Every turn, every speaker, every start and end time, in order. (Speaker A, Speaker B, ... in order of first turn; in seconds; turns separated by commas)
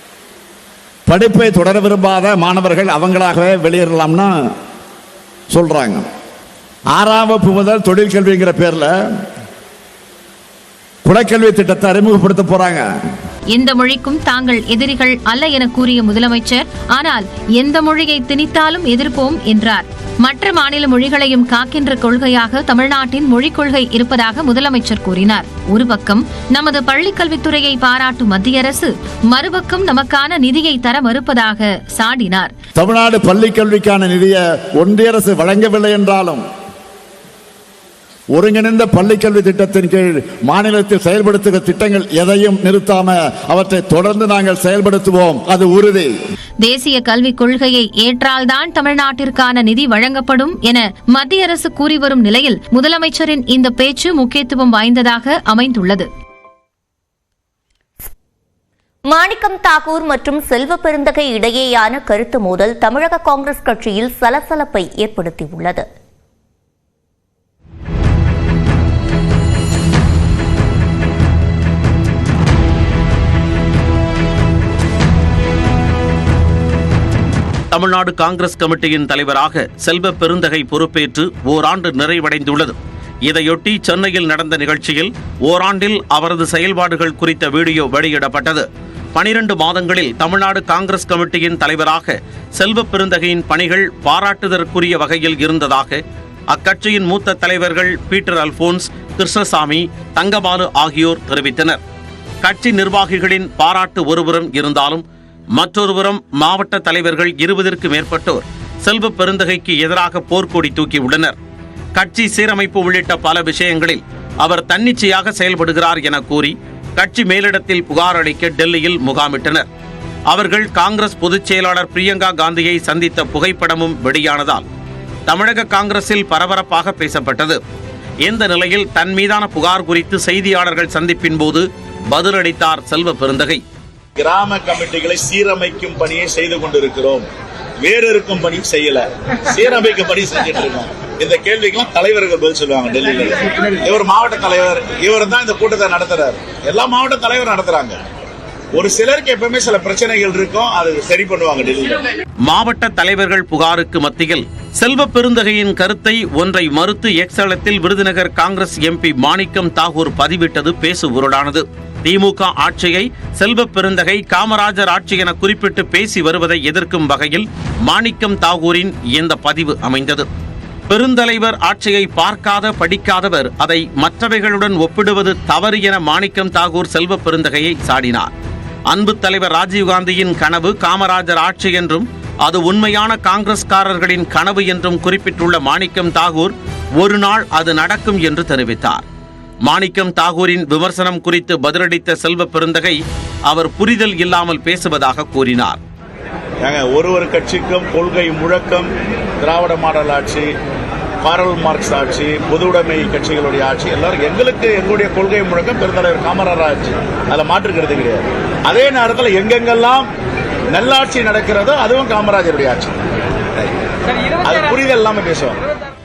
Speaker A: 1.1-4.3, Speaker A: 5.5-6.1, Speaker A: 6.9-8.9, Speaker A: 11.1-12.8, Speaker B: 13.5-32.5, Speaker A: 32.8-36.4, Speaker A: 38.3-46.1, Speaker B: 46.6-56.1, Speaker C: 59.1-65.9, Speaker D: 77.7-96.0, Speaker D: 96.5-101.8, Speaker D: 102.4-105.0, Speaker D: 105.6-111.4, Speaker D: 112.0-119.7, Speaker D: 120.3-124.7, Speaker D: 125.3-127.6, Speaker D: 128.2-133.6, Speaker E: 134.2-137.3, Speaker E: 137.8-148.0, Speaker E: 148.7-152.1, Speaker D: 152.4-170.3, Speaker D: 170.9-178.3, Speaker D: 178.9-189.1, Speaker D: 189.7-193.0, Speaker D: 193.5-195.8, Speaker E: 196.6-198.9, Speaker E: 199.4-200.5, Speaker E: 201.2-210.1, Speaker E: 210.7-213.0, Speaker E: 214.4-215.6